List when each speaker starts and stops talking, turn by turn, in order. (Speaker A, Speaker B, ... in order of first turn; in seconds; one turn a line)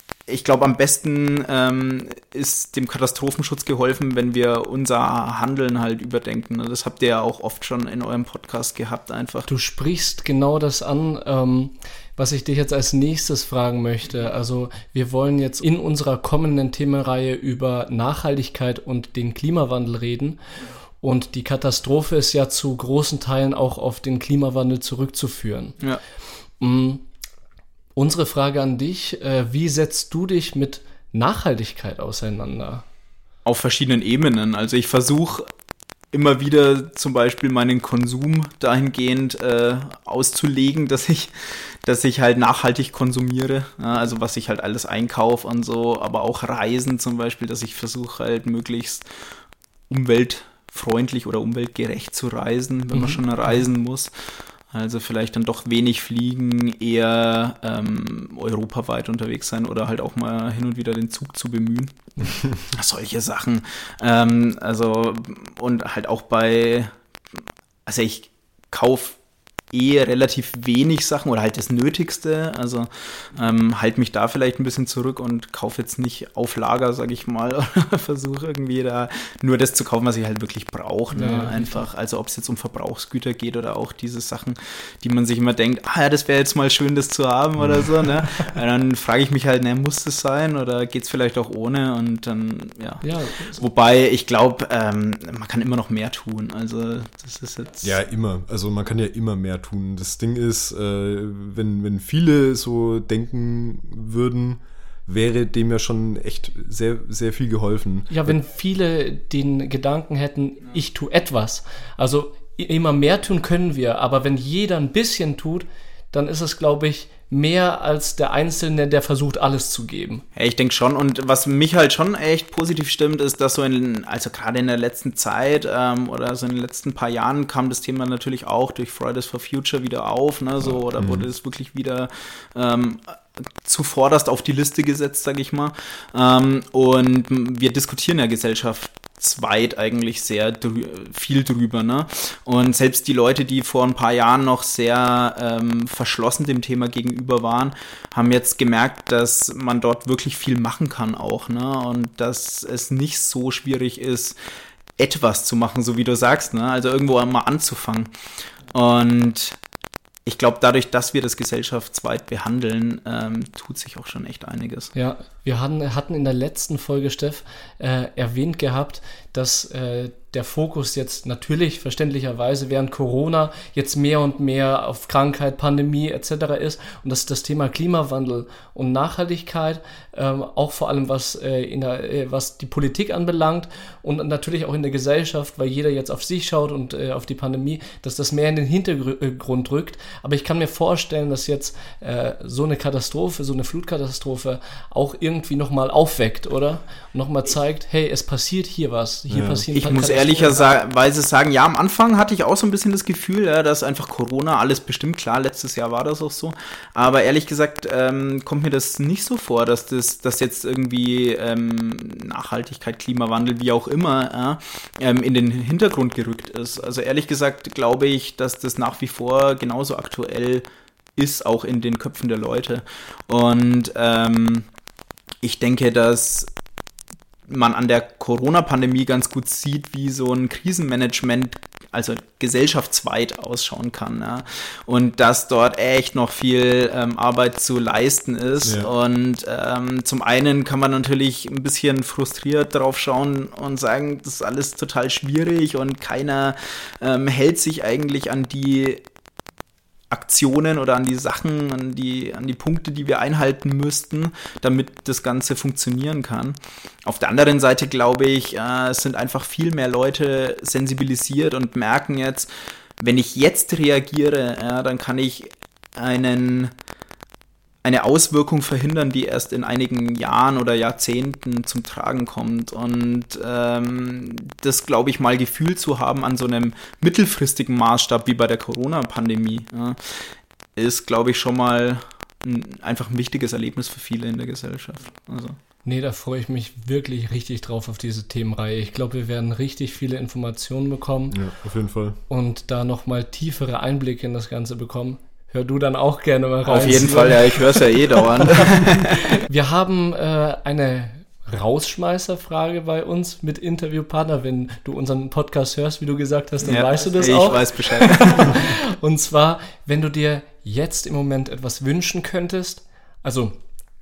Speaker A: 0.3-9.5
Speaker B: 9.5-20.4
Speaker B: 21.0-25.8
Speaker B: 26.6-27.0
Speaker B: 27.9-32.8
Speaker A: 33.4-35.5
Speaker A: 36.1-49.0
Speaker A: 49.9-54.1
Speaker B: 52.9-53.2
Speaker A: 54.7-66.9
Speaker A: 67.8-69.2
Speaker A: 69.7-97.9
Speaker B: 81.1-81.9
Speaker B: 93.0-93.6
Speaker C: 97.8-108.4
Speaker B: 108.1-120.2
Speaker A: 120.3-154.3
Speaker C: 131.0-131.3
Speaker A: 155.0-158.1
Speaker A: 158.7-159.6
Speaker A: 160.2-164.9
Speaker B: 164.9-200.6
Speaker C: 199.3-199.7
Speaker A: 199.7-220.6
Speaker A: 221.2-224.7
Speaker A: 225.4-226.5
Speaker A: 227.5-249.0
Speaker C: 238.6-238.9
Speaker A: 250.1-266.7
Speaker A: 267.8-285.6
Speaker B: 285.8-291.4
Speaker C: 291.3-292.2
Speaker B: 292.3-298.6
Speaker A: 296.6-299.2
Speaker B: 299.3-313.5
Speaker A: 306.7-308.6